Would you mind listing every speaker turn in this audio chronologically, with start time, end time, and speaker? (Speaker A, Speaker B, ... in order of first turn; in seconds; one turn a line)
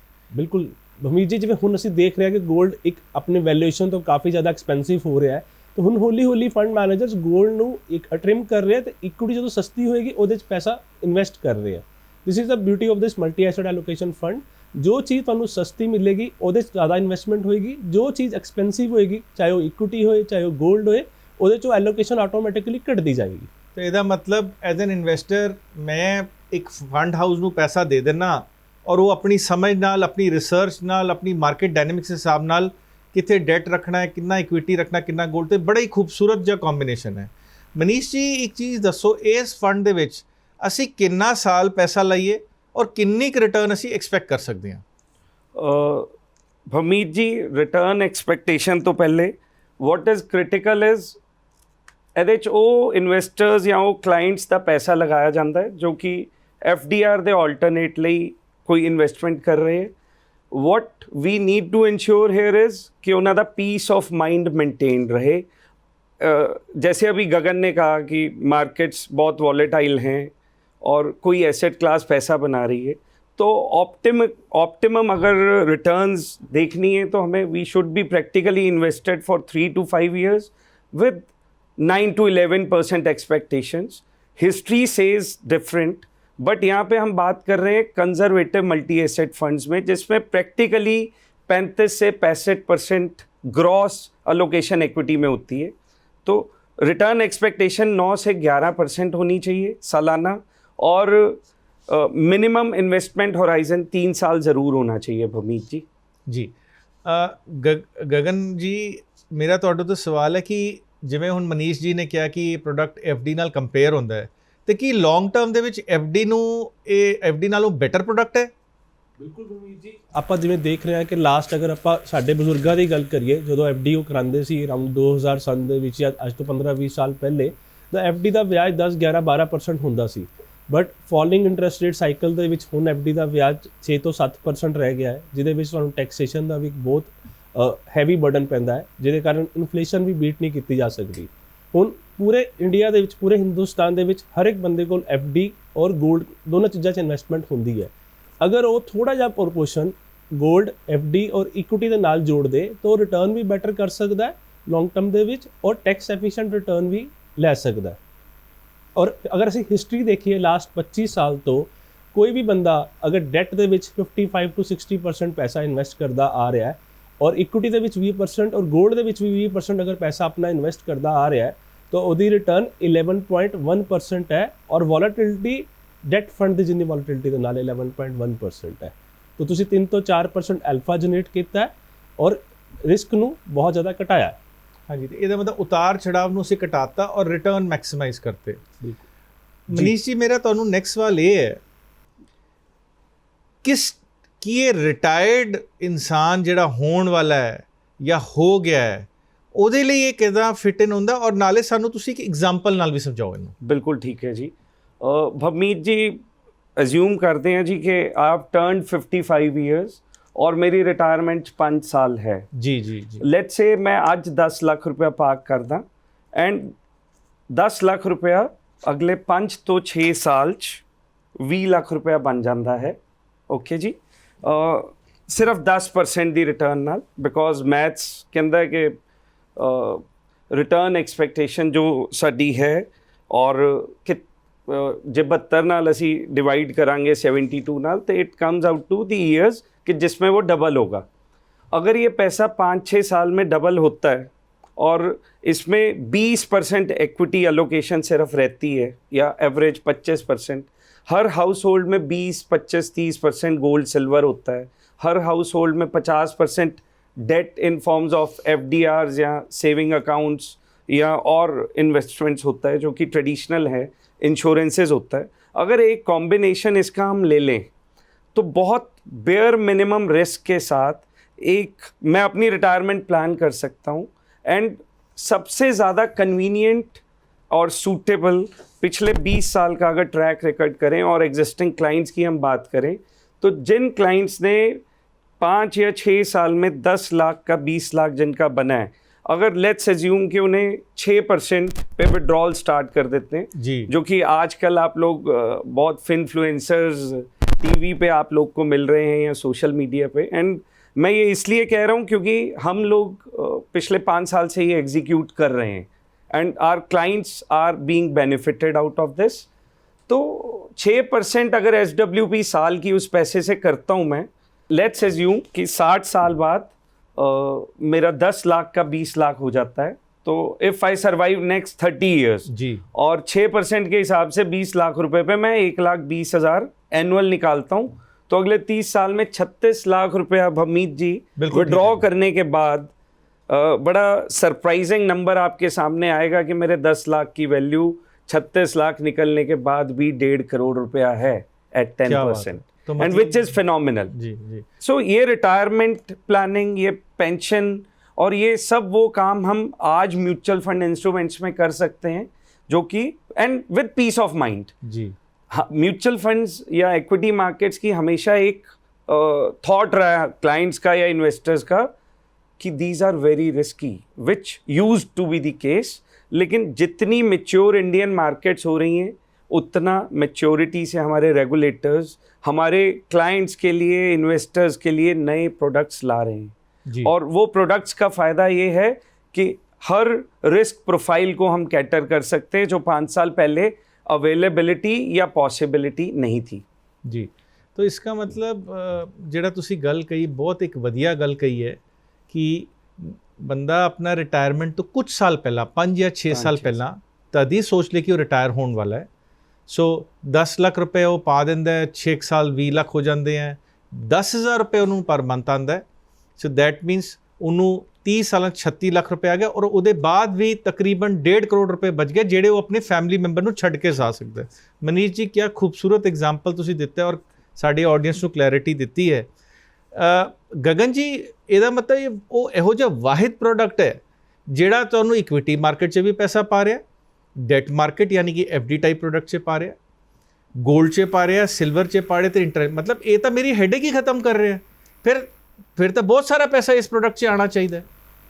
Speaker A: 0.3-23.5
Speaker B: 23.8-44.8
Speaker C: 45.5-46.1
Speaker C: 46.7-51.2
Speaker C: 52.1-59.9
Speaker C: 60.5-65.4
Speaker C: 66.2-70.3
Speaker C: 70.8-81.2
Speaker C: 81.8-95.7
Speaker C: 96.2-105.8
Speaker B: 106.3-106.5
Speaker B: 107.0-118.5
Speaker A: 119.2-158.0
Speaker A: 158.9-184.4
Speaker B: 184.9-188.6
Speaker B: 189.7-191.6
Speaker B: 193.6-203.5
Speaker C: 203.6-206.2
Speaker C: 206.8-212.5
Speaker B: 212.5-213.2
Speaker C: 213.2-215.8
Speaker C: 216.3-216.7
Speaker C: 217.5-220.8
Speaker C: 221.4-223.0
Speaker C: 223.5-229.0
Speaker C: 229.6-241.0
Speaker C: 241.7-267.7
Speaker C: 268.3-284.8
Speaker C: 285.4-309.5
Speaker B: 293.5-293.9
Speaker C: 310.1-332.9
Speaker B: 322.5-322.8
Speaker B: 331.4-332.0
Speaker C: 333.5-344.1
Speaker B: 342.1-343.5
Speaker B: 344.1-344.6
Speaker C: 344.8-354.8
Speaker B: 354.8-355.1
Speaker C: 355.5-361.9
Speaker C: 362.6-376.5
Speaker C: 377.0-386.6
Speaker B: 387.1-391.8
Speaker B: 392.3-399.1
Speaker C: 396.3-396.8
Speaker B: 399.7-405.8
Speaker B: 406.4-419.3
Speaker B: 419.9-426.8
Speaker B: 427.4-429.8
Speaker B: 430.6-437.9